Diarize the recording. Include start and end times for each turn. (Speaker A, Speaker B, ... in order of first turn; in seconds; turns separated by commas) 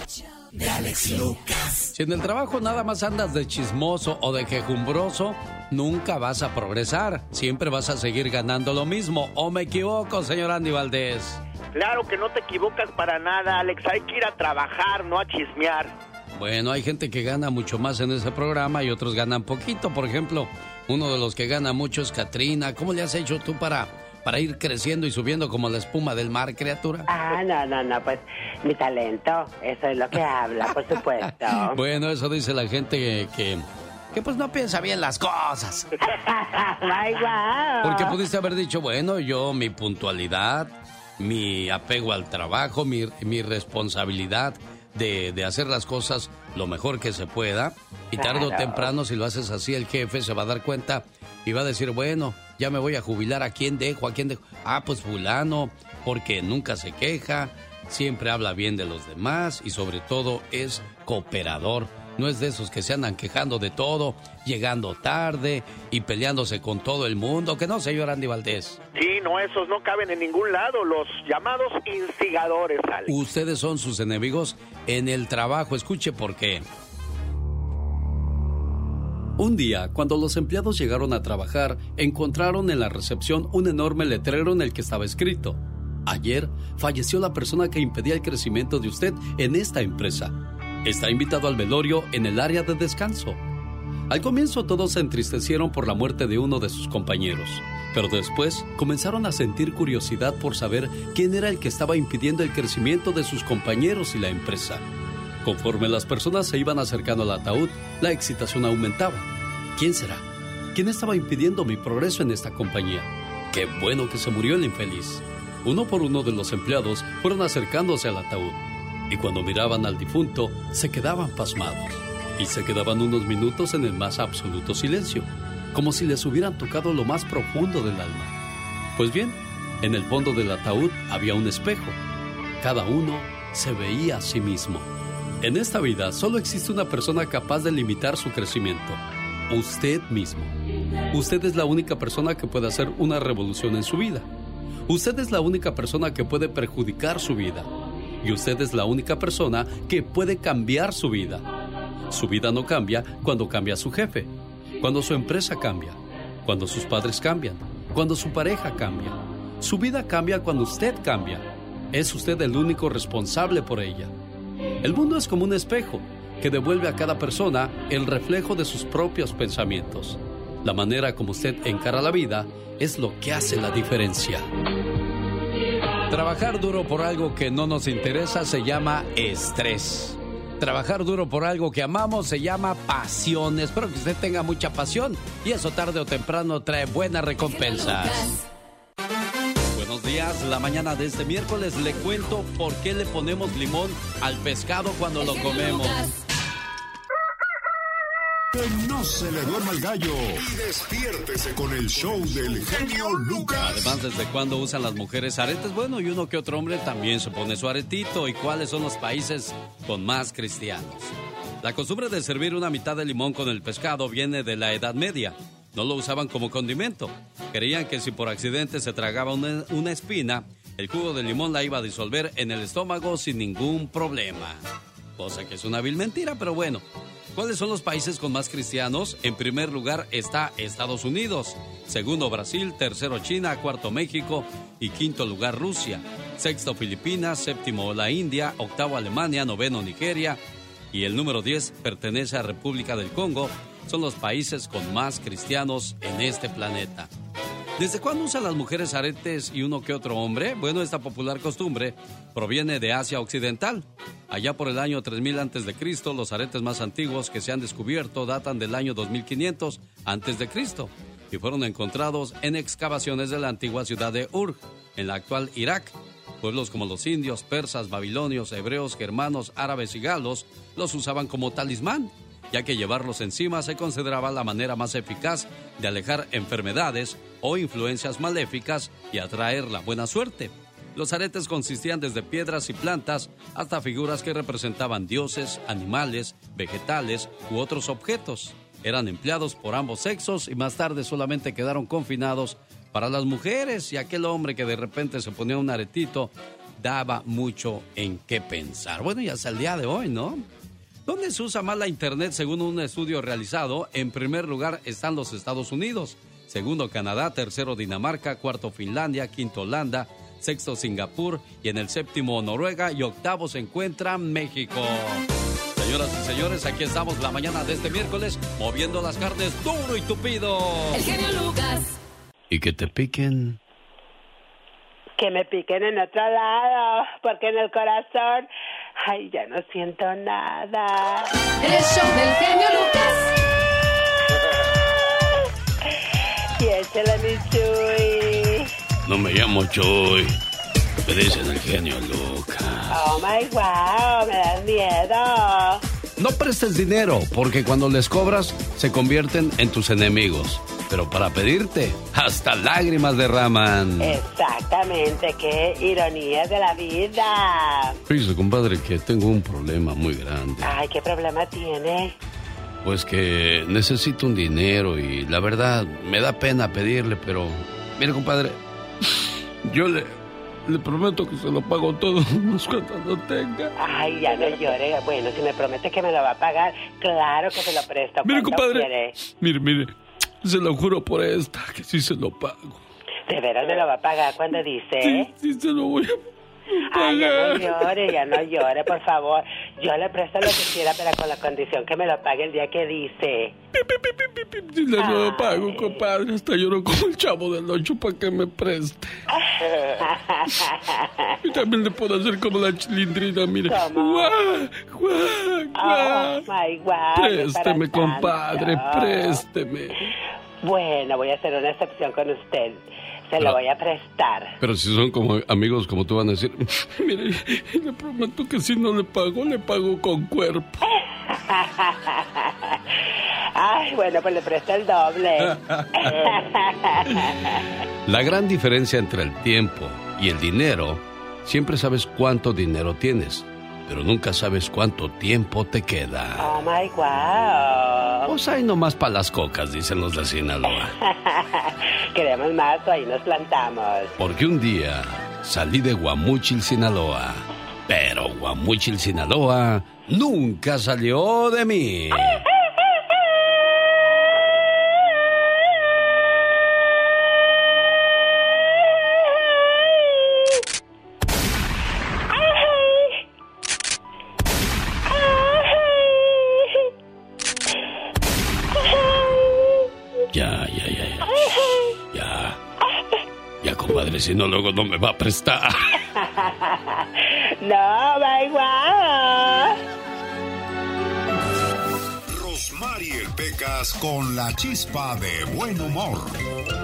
Speaker A: 1.9-11.4, Speaker B: 11.7-15.9, Speaker A: 16.3-27.1, Speaker C: 27.1-31.8, Speaker A: 31.7-35.9, Speaker C: 36.0-38.1, Speaker A: 37.8-68.8, Speaker C: 48.1-48.9, Speaker B: 68.9-73.1, Speaker A: 73.1-76.6, Speaker A: 79.4-93.4, Speaker A: 94.1-104.8, Speaker A: 105.4-128.3, Speaker A: 128.9-132.0, Speaker A: 132.6-134.9, Speaker A: 135.4-140.5, Speaker A: 141.1-144.3, Speaker A: 144.9-147.7, Speaker A: 148.2-151.4, Speaker A: 152.1-164.1, Speaker A: 164.8-174.5, Speaker A: 176.1-188.3, Speaker D: 187.4-188.4, Speaker A: 189.7-196.0, Speaker D: 195.3-196.1, Speaker E: 198.5-204.0, Speaker A: 203.6-226.8, Speaker A: 227.3-240.4, Speaker A: 240.9-247.1, Speaker A: 247.8-300.4, Speaker A: 301.1-315.2, Speaker A: 315.8-321.0, Speaker D: 320.9-322.0, Speaker A: 322.5-323.6, Speaker C: 325.2-328.5, Speaker C: 329.0-331.3, Speaker D: 331.6-333.4, Speaker C: 336.6-338.7, Speaker A: 339.1-340.3, Speaker A: 341.1-343.0, Speaker C: 342.9-345.8, Speaker A: 346.2-354.2, Speaker C: 354.0-357.9, Speaker A: 358.1-360.7, Speaker C: 360.6-362.1, Speaker A: 362.8-368.6, Speaker A: 369.6-373.7, Speaker C: 373.8-379.1, Speaker A: 378.2-379.9, Speaker A: 380.4-382.8, Speaker C: 383.3-385.3, Speaker A: 385.1-386.1, Speaker C: 386.9-393.5, Speaker A: 386.9-387.8, Speaker A: 394.8-399.0, Speaker C: 394.9-396.1, Speaker C: 399.3-401.5, Speaker A: 401.4-406.4, Speaker C: 403.6-404.4, Speaker C: 405.7-409.4, Speaker A: 407.1-410.1, Speaker C: 410.6-414.5, Speaker A: 414.6-420.8, Speaker C: 421.3-422.8, Speaker C: 423.6-427.6, Speaker A: 425.8-426.2, Speaker A: 428.1-436.5, Speaker C: 436.4-438.3, Speaker A: 438.2-440.9, Speaker C: 441.0-444.1, Speaker A: 444.2-452.4, Speaker C: 465.1-465.9, Speaker A: 470.3-471.4, Speaker C: 471.4-471.8, Speaker A: 472.1-472.6, Speaker A: 473.6-475.9, Speaker C: 476.1-479.8, Speaker E: 482.3-486.4